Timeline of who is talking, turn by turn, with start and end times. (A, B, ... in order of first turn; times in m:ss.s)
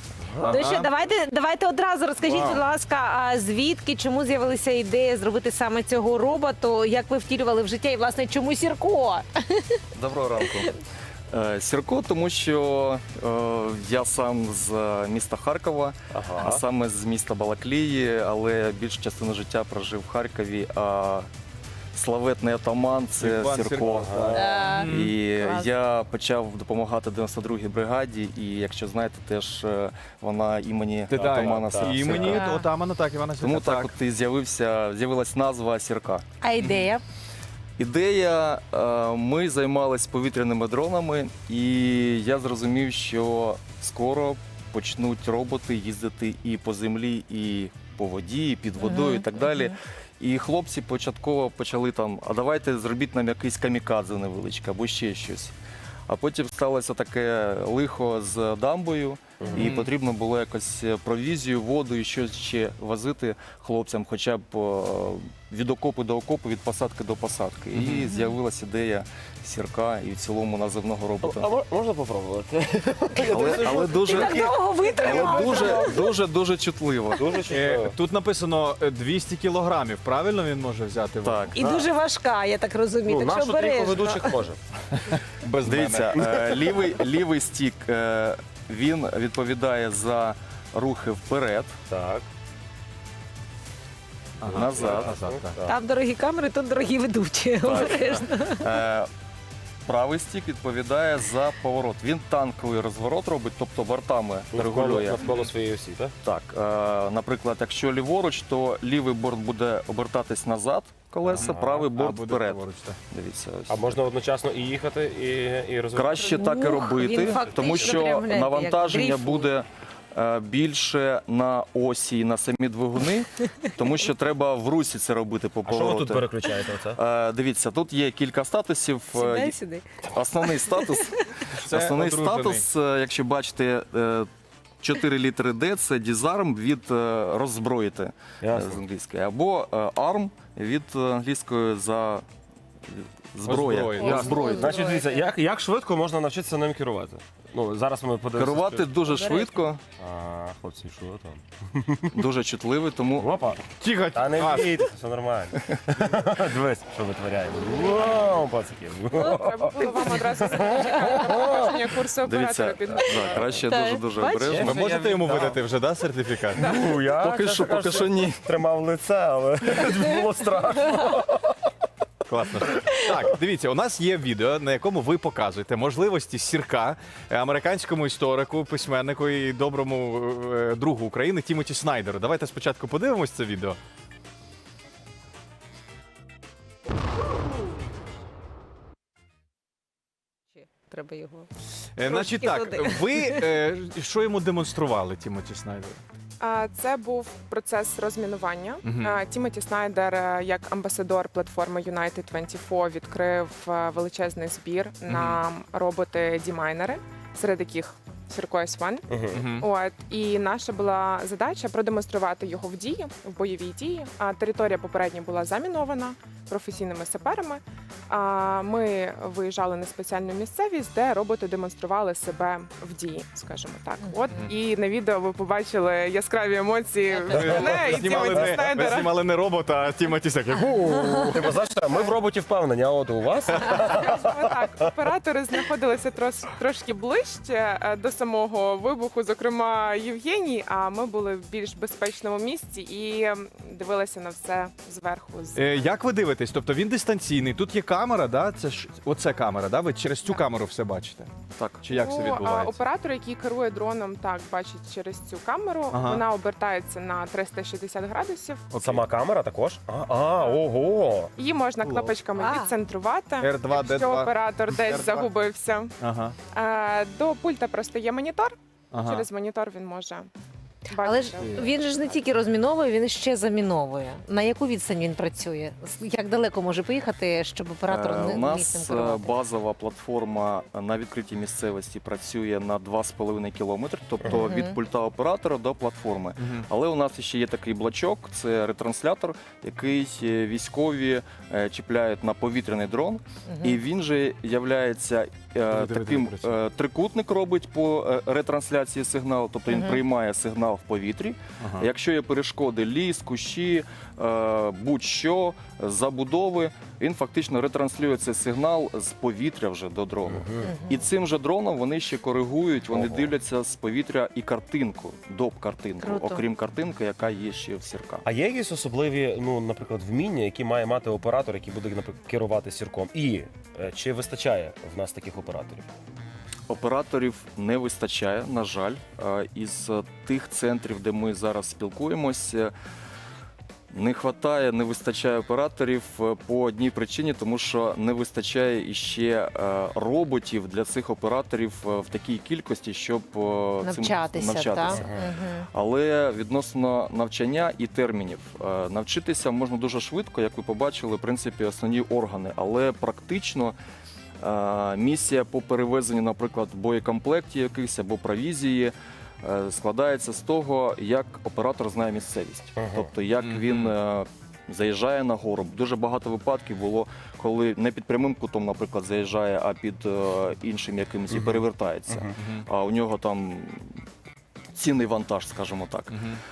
0:00.3-0:00.6 A
0:00.4-0:00.9 B
0:00.4-0:09.8 C
0:02.3-0:02.6 A
0:09.9-0:10.7 D
0:11.3-0:21.3 D
0:16.1-0:16.6 A
0:21.9-0:32.4 D
0:23.2-0:25.1 B
0:23.8-0:24.6 A
0:24.4-0:25.7 C
0:31.1-0:33.9 B
0:31.1-0:32.4 A
0:32.3-0:32.6 C
0:33.4-0:36.2 D
0:36.4-0:37.0 C
0:37.8-0:55.6 D
0:48.8-0:49.7 C
0:56.1-1:11.5 D
0:59.4-0:59.7 A
0:59.6-0:59.9 B
1:07.7-1:08.0 B
1:11.2-1:16.0 A
1:13.3-1:17.4 D
1:13.8-1:16.0 C
1:17.1-1:18.0 A
1:17.5-1:21.5 B
1:21.2-1:21.6 D
1:21.5-1:24.3 C
1:21.5-1:21.9 A
1:23.0-1:24.6 A
1:24.9-1:26.6 B
1:25.6-1:31.7 D
1:31.9-1:32.3 A
1:34.4-1:35.6 B
1:34.4-1:35.8 A
1:34.5-1:35.2 D
1:35.6-1:38.7 C
1:37.6-1:38.2 A
1:38.6-1:39.1 D
1:39.8-1:45.2 D
1:44.5-1:46.1 A
1:46.2-1:53.9 D
1:51.3-1:53.0 B
1:51.4-1:51.8 A
1:53.7-1:56.2 A
1:55.9-2:06.4 D
1:56.2-1:59.5 C
1:57.5-1:58.1 A
2:05.6-2:07.0 A
2:06.9-2:09.5 D
2:09.1-2:09.9 C
2:10.1-2:14.3 D
2:10.6-2:11.4 C
2:11.6-2:12.6 B
2:14.8-2:22.2 D
2:18.4-2:18.8 A
2:22.9-2:24.5 D
2:23.4-2:24.5 B
2:24.0-2:28.9 A
2:24.0-2:25.2 C
2:28.4-2:29.8 D
2:29.1-2:29.6 C
2:30.0-2:32.2 A
2:32.1-2:33.3 D
2:33.2-2:41.7 A
2:33.8-2:34.9 B
2:39.2-2:43.6 E
2:42.2-2:44.7 D
2:43.6-2:44.6 C
2:44.3-2:45.6 A
2:44.6-2:46.7 B
2:46.5-2:51.6 A
2:47.2-2:48.4 D
2:52.3-3:03.8 B
3:10.6-3:11.5 C
3:12.0-3:16.0 B
3:12.0-3:13.5 C
3:16.4-3:49.1 E
3:18.8-3:19.2 B
3:25.1-3:25.4 B
3:29.1-3:29.5 A
3:29.3-3:29.7 B
3:47.3-3:51.6 B
3:47.3-3:48.6 A
3:50.9-3:54.5 A
3:53.5-3:53.8 B
3:53.8-4:05.9 E
4:05.5-4:11.3 B
4:11.6-4:11.8 D
4:11.8-4:12.8 B
4:11.9-4:18.7 E
4:15.9-4:16.2 B
4:18.7-4:19.0 B
4:18.8-4:21.3 A
4:21.3-4:25.9 E
4:21.8-4:22.1 B
4:22.4-4:22.7 C
4:23.4-4:25.2 B
4:26.0-4:26.4 B
4:26.5-4:30.3 E
4:28.9-4:29.2 B
4:30.9-4:31.8 E
4:31.0-4:39.4 C
4:37.9-5:18.2 D
4:44.3-4:44.8 C
4:46.4-4:46.6 B
4:53.5-4:53.8 C
4:55.7-4:56.5 B
4:59.7-5:00.0 C
5:10.3-5:10.7 A
5:10.6-5:11.0 C
5:12.9-5:13.3 A
5:16.0-5:16.4 C
5:18.2-5:25.9 A
5:26.7-5:32.7 D
5:33.9-5:45.1 D
5:43.8-5:45.7 C
5:44.9-5:45.2 A
5:45.7-5:53.8 D
5:54.4-6:14.0 D
6:02.8-6:03.1 A
6:03.4-6:03.9 B
6:11.3-6:12.3 A
6:12.4-6:12.7 B
6:14.7-6:16.2 D
6:16.1-6:16.4 B